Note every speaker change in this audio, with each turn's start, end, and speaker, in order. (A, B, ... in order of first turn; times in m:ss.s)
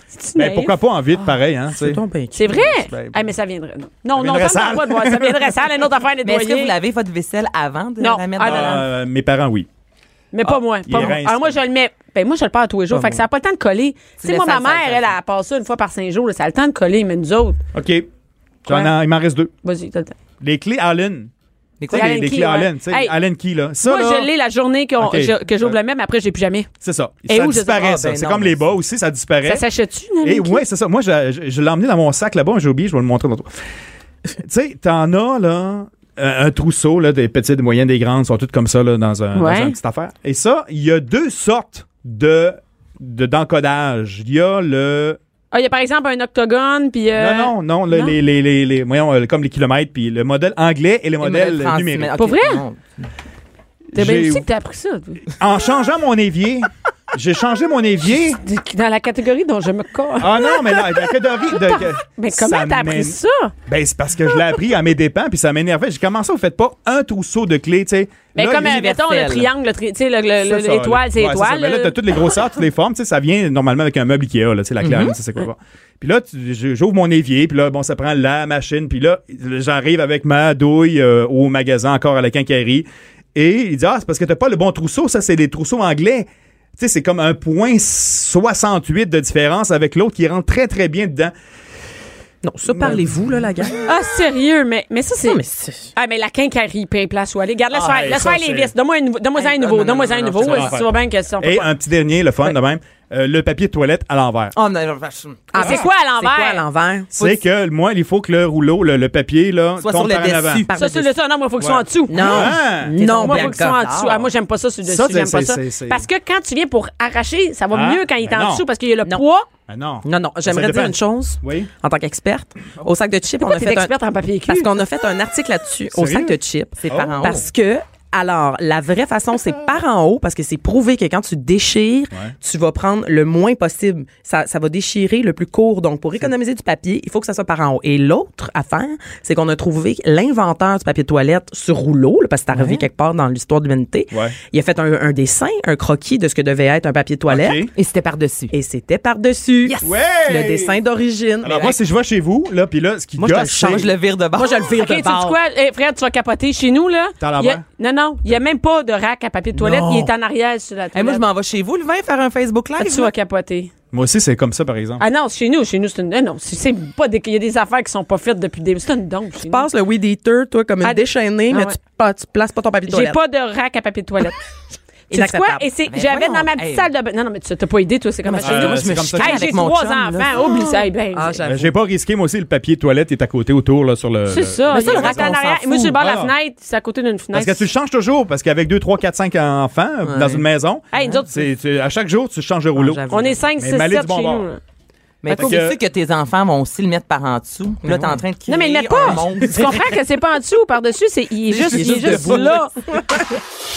0:00.1-0:00.8 A
0:00.4-0:02.0 B
0:01.7-0:02.7 C
0:02.3-0:06.7 A
0:02.9-0:03.2 B
0:04.1-0:05.6 B
0:06.2-0:08.9 D
0:08.0-0:08.8 A
0:08.4-0:09.7 B
0:10.3-0:17.6 A
0:10.4-0:11.6 B
0:12.9-0:13.2 C
0:14.2-0:15.1 D
0:17.7-0:18.1 B
0:18.6-0:19.5 B
0:18.7-0:18.9 A
0:19.6-0:20.2 A
0:20.4-0:21.3 B
0:21.8-0:22.1 D
0:21.9-0:24.3 B
0:21.9-0:23.1 A
0:23.8-0:26.7 A
0:25.0-0:25.8 B
0:26.8-0:29.6 B
0:27.3-0:28.0 A
0:27.8-0:28.6 D
0:29.4-0:30.6 A
0:30.2-0:33.6 B
0:34.4-0:45.2 B
0:39.4-0:39.8 A
0:45.5-0:48.2 A
0:47.1-0:52.2 B
0:51.2-0:53.1 D
0:52.2-0:52.6 A
0:53.9-0:54.5 B
0:54.0-0:55.2 A
0:55.4-0:58.4 B
0:58.4-1:03.5 A
1:00.2-1:08.8 B
1:08.4-1:12.0 A
1:08.5-1:09.5 D
1:10.4-1:31.3 B
1:14.8-1:15.1 D
1:32.4-1:33.8 C
1:32.6-1:33.1 B
1:33.8-1:35.4 A
1:35.2-1:35.9 C
1:35.9-1:41.7 A
1:37.8-1:38.2 D
1:37.8-1:38.7 B
1:39.4-1:40.8 D
1:40.4-1:44.5 B
1:44.5-1:45.5 D
1:45.5-1:47.1 C
1:45.5-1:46.6 A
1:45.6-1:45.8 B
1:47.1-1:50.7 B
1:49.8-1:50.8 D
1:50.7-1:51.0 C
1:50.8-1:59.5 A
1:51.6-1:53.0 B
1:52.1-1:53.9 C
1:53.2-1:54.3 D
1:54.8-1:56.1 B
1:57.7-1:58.6 B
1:59.7-2:01.7 B
2:00.0-2:03.9 C
2:03.4-2:04.7 A
2:04.5-2:27.6 C
2:05.9-2:06.4 B
2:06.8-2:07.5 D
2:06.9-2:07.4 B
2:22.5-2:22.8 B
2:27.3-2:27.7 B
2:27.8-2:28.5 D
2:28.5-2:31.8 C
2:29.8-2:30.8 B
2:31.4-2:33.9 B
2:33.2-2:35.4 C
2:33.6-2:34.7 D
2:34.7-2:41.2 A
2:37.2-2:37.6 B
2:39.5-2:40.1 C
2:40.9-2:43.1 D
2:42.8-2:43.7 A
2:43.9-2:45.0 B
2:45.0-2:49.7 A
2:49.4-2:53.2 C
2:50.8-2:51.8 A
2:52.9-2:54.4 A
2:55.1-3:01.4 A
2:55.1-2:55.7 C
2:55.8-2:56.9 D
2:58.2-3:00.5 D
2:58.4-2:59.5 B
3:00.4-3:01.8 C
3:01.4-3:05.3 B
3:04.3-3:07.7 A
3:04.7-3:05.8 D
3:04.7-3:05.4 C
3:05.9-3:06.3 B
3:07.3-3:14.5 B
3:10.0-3:10.4 C
3:10.9-3:11.5 A
3:12.7-3:13.4 C
3:13.1-3:14.6 A
3:15.2-3:19.8 D
3:15.3-3:15.6 A
3:15.3-3:15.8 B
3:17.8-3:18.2 C
3:18.5-3:22.7 A
3:19.0-3:19.9 C
3:21.5-3:23.3 C
3:21.8-3:22.5 B